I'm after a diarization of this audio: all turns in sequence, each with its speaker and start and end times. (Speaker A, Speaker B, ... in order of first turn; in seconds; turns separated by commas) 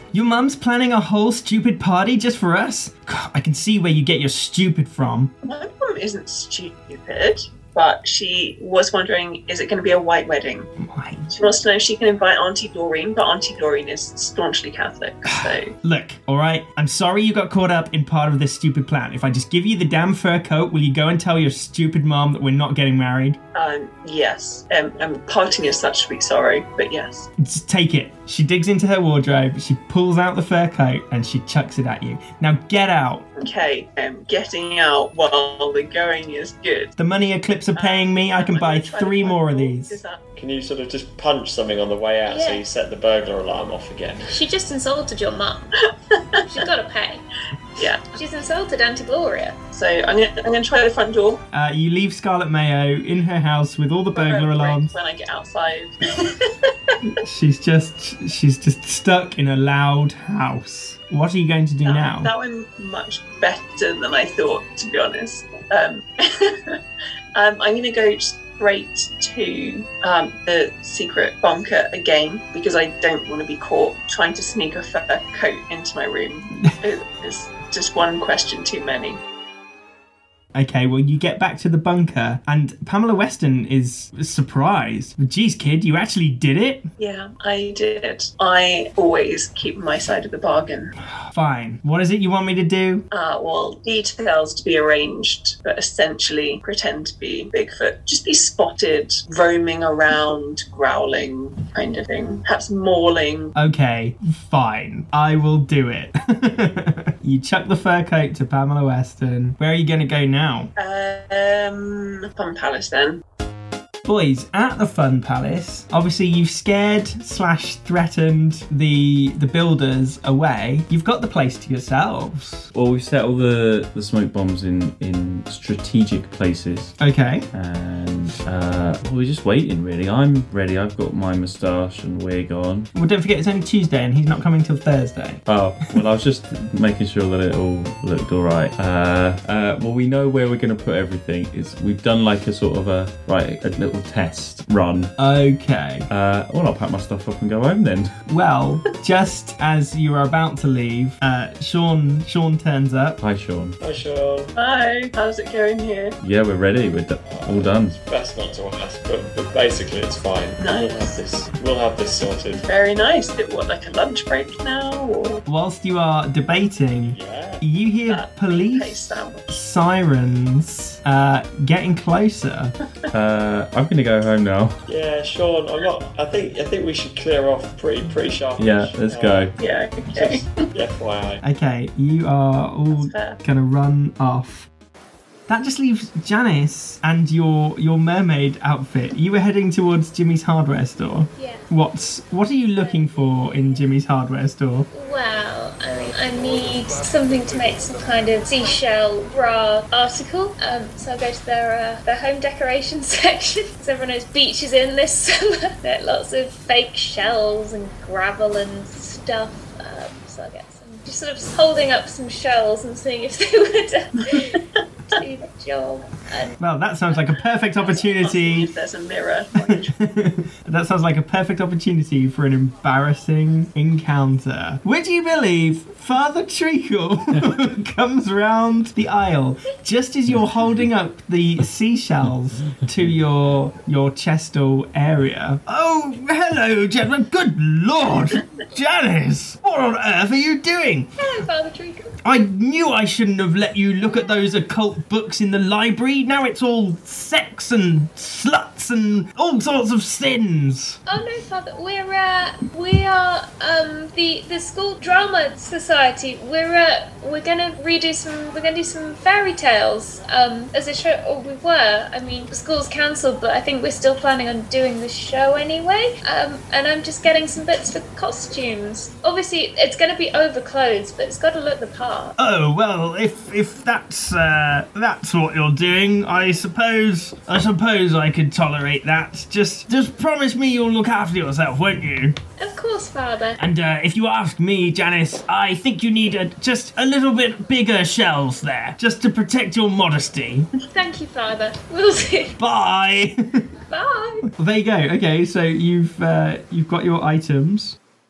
Speaker A: 0.1-5.3, Speaker B: 5.4-10.7, Speaker A: 10.8-11.3, Speaker B: 11.3-15.7, Speaker A: 15.3-23.4, Speaker B: 23.5-27.3, Speaker A: 27.4-33.3, Speaker B: 33.4-36.9, Speaker A: 37.0-40.0, Speaker B: 37.8-40.2, Speaker C: 40.4-44.4, Speaker D: 42.2-42.6, Speaker D: 44.3-45.7, Speaker B: 46.1-46.7, Speaker D: 46.5-47.2, Speaker B: 47.8-48.2, Speaker D: 48.1-49.6, Speaker B: 49.7-51.4, Speaker A: 51.5-54.9, Speaker B: 54.1-57.0, Speaker A: 57.2-62.3, Speaker B: 61.8-66.8, Speaker B: 67.3-79.2, Speaker A: 80.5-86.8, Speaker B: 87.0-90.9, Speaker A: 91.3-93.0, Speaker B: 93.1-103.5, Speaker A: 103.6-110.7, Speaker B: 110.8-113.2, Speaker A: 114.1-122.7, Speaker E: 122.7-127.0, Speaker A: 127.0-127.5, Speaker E: 127.5-132.9, Speaker A: 132.9-135.4, Speaker E: 135.4-145.1, Speaker A: 145.2-146.1, Speaker E: 146.1-148.1, Speaker A: 148.3-153.2, Speaker E: 153.2-153.8, Speaker C: 153.8-154.5, Speaker B: 154.6-156.2, Speaker E: 156.2-158.0, Speaker C: 157.2-162.7, Speaker B: 160.6-161.2, Speaker B: 162.6-165.4, Speaker A: 165.5-172.7, Speaker C: 166.9-167.6, Speaker B: 168.1-169.6, Speaker E: 173.1-174.8, Speaker C: 174.9-179.6, Speaker E: 178.6-179.5, Speaker B: 179.6-180.6, Speaker C: 180.1-181.4, Speaker A: 181.4-184.7, Speaker B: 182.9-183.4, Speaker A: 185.5-194.9, Speaker D: 191.4-191.7, Speaker D: 192.8-193.2, Speaker D: 194.9-214.6, Speaker D: 215.1-216.5, Speaker A: 216.6-218.7, Speaker B: 217.8-219.9, Speaker A: 219.6-241.1, Speaker D: 241.2-242.1, Speaker A: 242.2-251.0, Speaker D: 251.1-272.4, Speaker A: 272.4-282.4, Speaker D: 282.6-283.6, Speaker A: 283.6-290.7, Speaker D: 290.9-292.6, Speaker A: 292.6-293.7, Speaker D: 293.9-294.5, Speaker A: 294.6-298.0